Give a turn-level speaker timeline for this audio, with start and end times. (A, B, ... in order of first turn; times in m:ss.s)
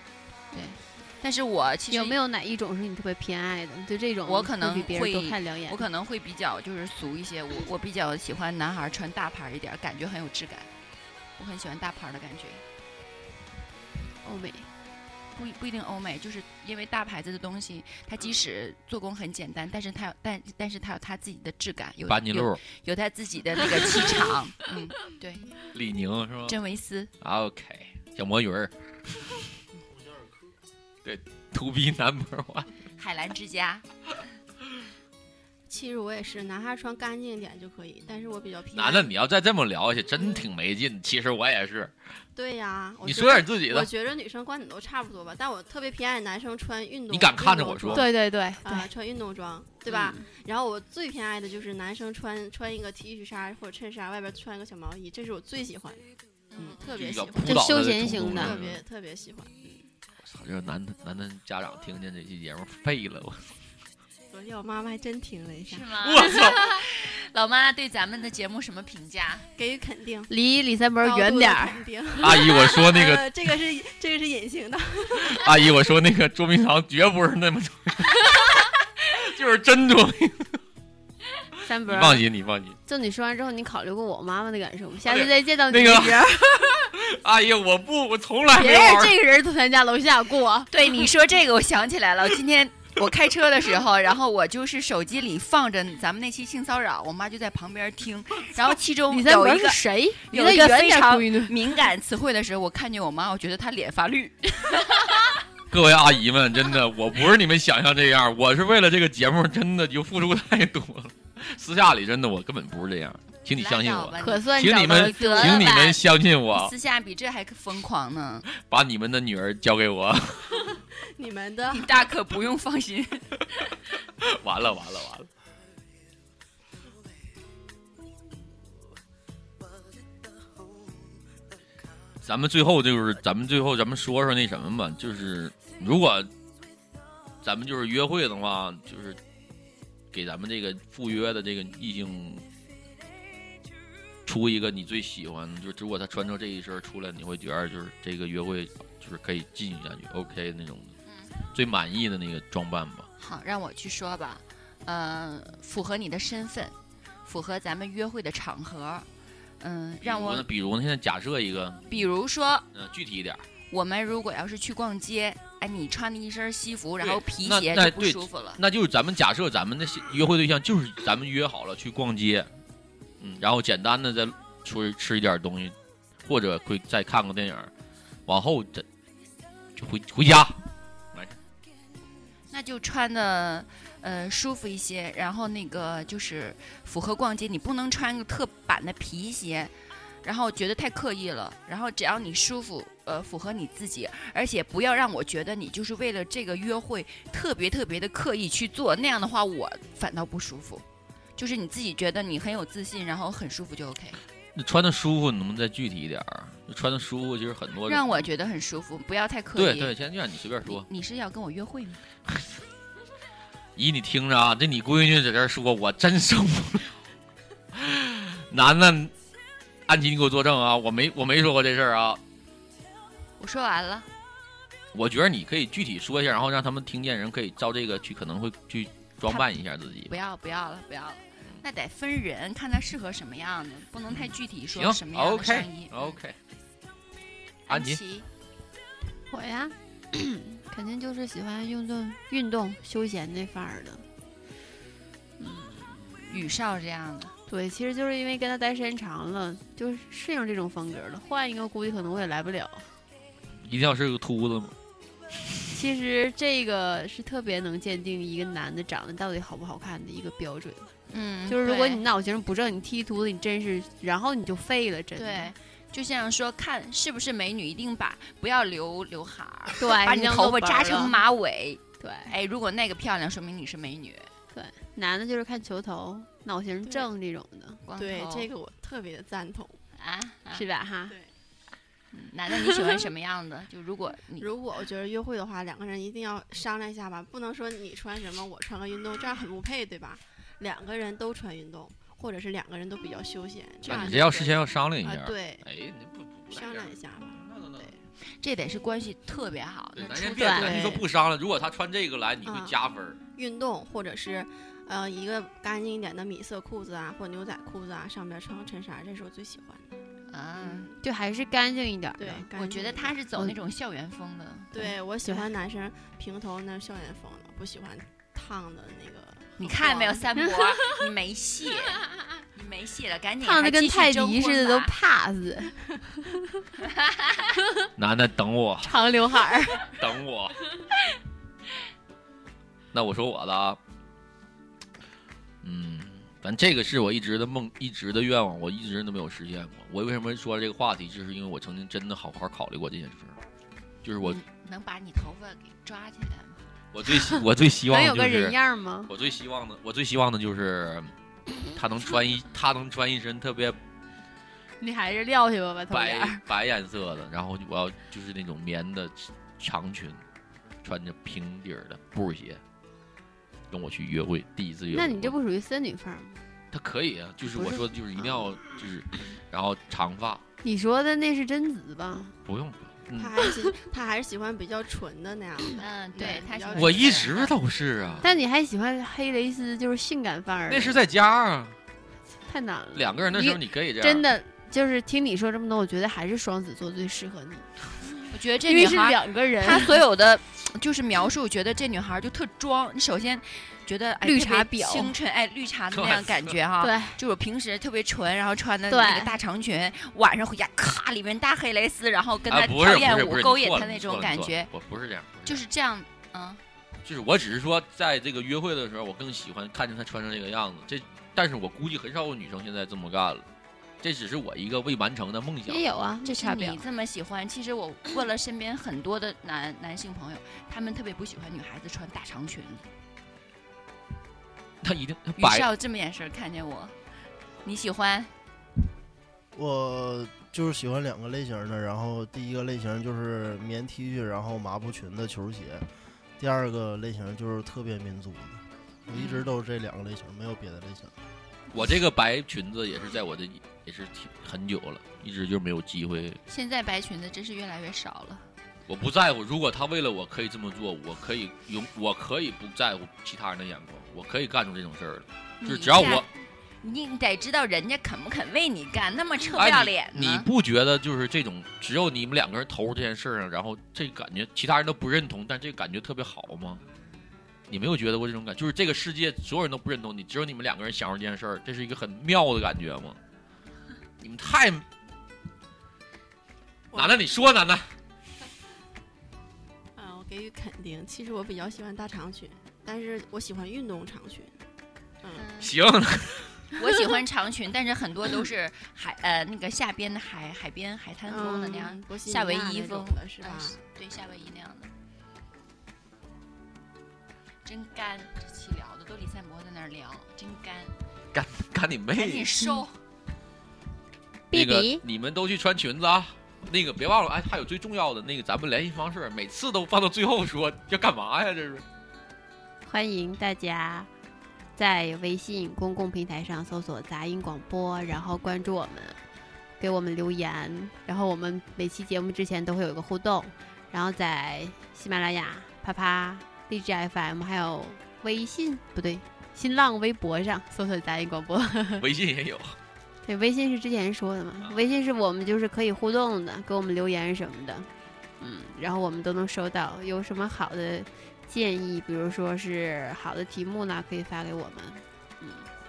0:00.5-0:02.2 A
0:01.9-0:05.8 B
0:04.3-0:10.7 A
0:11.4-0:12.6 A
0:14.2-0:14.7 B
0:15.3-0:25.5 A
0:22.1-0:22.6 C
0:25.7-0:26.6 C
0:26.5-0:27.1 A
0:27.2-0:28.7 C
0:31.0-0:32.7 C
0:33.0-0:33.8 A
0:35.7-0:39.1 D
0:38.7-0:41.9 C
0:40.2-0:40.5 D
0:42.4-0:59.9 D
0:43.0-0:43.9 C
0:47.1-0:48.1 C
0:47.9-0:48.9 B
0:56.5-0:56.8 A
0:56.9-0:58.8 C
0:57.4-0:58.6 B
1:00.2-1:03.5 C
1:04.3-1:06.5 D
1:05.7-1:09.4 A
1:06.0-1:06.6 C
1:09.6-1:10.3 D
1:10.3-1:12.2 B
1:11.0-1:15.6 D
1:12.2-1:13.3 C
1:15.3-1:20.6 C
1:21.7-1:22.2 B
1:21.9-1:22.8 C
1:22.9-1:26.9 B
1:25.1-1:29.2 C
1:28.5-1:31.1 B
1:30.7-1:45.4 A
1:39.1-1:41.8 B
1:45.7-1:56.7 C
1:53.6-1:56.0 A
1:54.2-1:56.0 B
1:56.5-1:58.5 A
1:58.5-2:00.6 C
2:00.6-2:01.9 D
2:01.7-2:03.4 A
2:04.2-2:05.3 C
2:12.2-2:16.3 C
2:17.4-2:19.2 C
2:20.1-2:22.4 C
2:24.3-2:31.0 C
2:31.1-2:31.4 A
2:31.5-2:33.1 C
2:33.2-2:36.7 A
2:37.2-2:39.1 A
2:39.6-2:40.5 A
2:40.0-2:41.9 C
2:41.9-2:42.7 A
2:42.7-2:43.4 C
2:43.7-2:48.6 A
2:47.0-2:52.5 C
2:53.2-2:57.7 C
2:58.3-2:58.9 C
2:59.8-3:00.6 C
3:02.5-3:20.8 A
3:21.4-3:24.2 A
3:24.6-3:28.0 C
3:27.9-3:29.9 A
3:29.6-3:30.9 C
3:30.7-3:32.0 A
3:33.8-3:36.9 C
3:37.7-3:39.1 C
3:39.9-3:42.2 C
3:43.4-3:44.1 A
3:44.9-3:50.1 C
3:50.1-3:56.0 A
3:54.1-3:56.4 C
3:57.7-3:58.3 A
3:57.7-3:58.0 C
3:59.3-4:04.0 B
4:05.4-4:06.4 B
4:06.3-4:07.3 A
4:07.5-4:12.9 B
4:13.6-4:14.7 C
4:15.7-4:20.9 B
4:21.1-4:22.0 A
4:21.5-4:25.5 B
4:25.2-4:34.3 A
4:29.8-4:31.2 B
4:32.0-4:32.3 B
4:34.5-4:37.8 B
4:37.8-4:38.5 A
4:38.0-4:39.8 D
4:40.0-4:40.6 A
4:40.5-4:41.2 B
4:42.1-4:44.5 A
4:44.4-4:55.6 D
4:53.9-4:57.8 C
4:53.9-4:54.2 A
4:56.5-4:58.0 D
4:58.3-5:00.8 A
5:00.0-5:03.2 C
5:00.4-5:01.0 B
5:00.6-5:01.0 D
5:02.4-5:02.8 D
5:03.4-5:10.0 D
5:10.3-5:10.9 A
5:10.6-5:11.0 D
5:11.0-5:12.5 B
5:12.2-5:13.2 D
5:12.5-5:14.8 A
5:14.7-5:20.4 D
5:14.8-5:15.5 B
5:19.6-5:24.9 A
5:23.4-5:26.6 B
5:28.0-5:29.0 C
5:28.8-5:29.9 B
5:29.9-5:30.6 C
5:32.9-5:33.8 C
5:35.6-5:43.4 C
5:44.0-5:44.4 C
5:44.2-5:46.6 A
5:46.9-5:51.1 C
5:47.1-5:49.1 B
5:51.6-5:53.8 C
5:54.8-5:56.4 B
5:55.9-6:00.2 C
6:00.8-6:02.6 C
6:03.7-6:05.4 C
6:04.9-6:06.4 B
6:06.7-6:10.4 C
6:07.4-6:08.6 B
6:10.6-6:12.4 B
6:12.5-6:13.4 C
6:13.2-6:17.4 D
6:15.8-6:18.3 A
6:16.8-6:18.2 C
6:18.2-6:21.0 B
6:20.7-6:21.8 C
6:22.5-6:27.7 B
6:23.0-6:24.3 C
6:28.3-6:44.7 A
6:28.7-6:30.0 B
6:34.2-6:35.1 B
6:35.9-6:36.6 C
6:36.8-6:37.2 B
6:38.9-6:39.4 B
6:42.5-6:45.6 C
6:45.5-6:46.6 A
6:47.0-6:53.4 C
6:54.0-6:55.8 C
6:55.7-6:56.8 B
6:56.2-7:02.9 A
7:04.8-7:05.7 C
7:05.4-7:07.0 A
7:07.6-7:08.3 A
7:09.5-7:15.9 E
7:16.4-7:21.1 E
7:19.2-7:19.5 A
7:21.7-7:26.4 C
7:26.5-7:28.5 A
7:28.9-7:36.3 C
7:35.6-7:36.3 A
7:36.8-7:40.5 A
7:39.6-7:46.8 C
7:47.7-7:53.2 C
7:54.2-7:54.8 C
7:56.9-7:57.2 D
7:56.9-7:57.9 C
8:00.0-8:04.6 D
8:05.4-8:05.8 A
8:05.6-8:06.6 C
8:06.8-8:14.9 A
8:11.3-8:13.8 D
8:17.6-8:20.9 A
8:21.3-8:22.6 C
8:22.2-8:22.9 A
8:24.5-8:25.0 B
8:24.5-8:31.8 C
8:32.9-8:34.1 B
8:34.8-8:39.2 B
8:39.8-8:52.1 B
8:52.0-8:52.8 C
8:53.2-8:57.9 B
8:58.4-9:05.7 B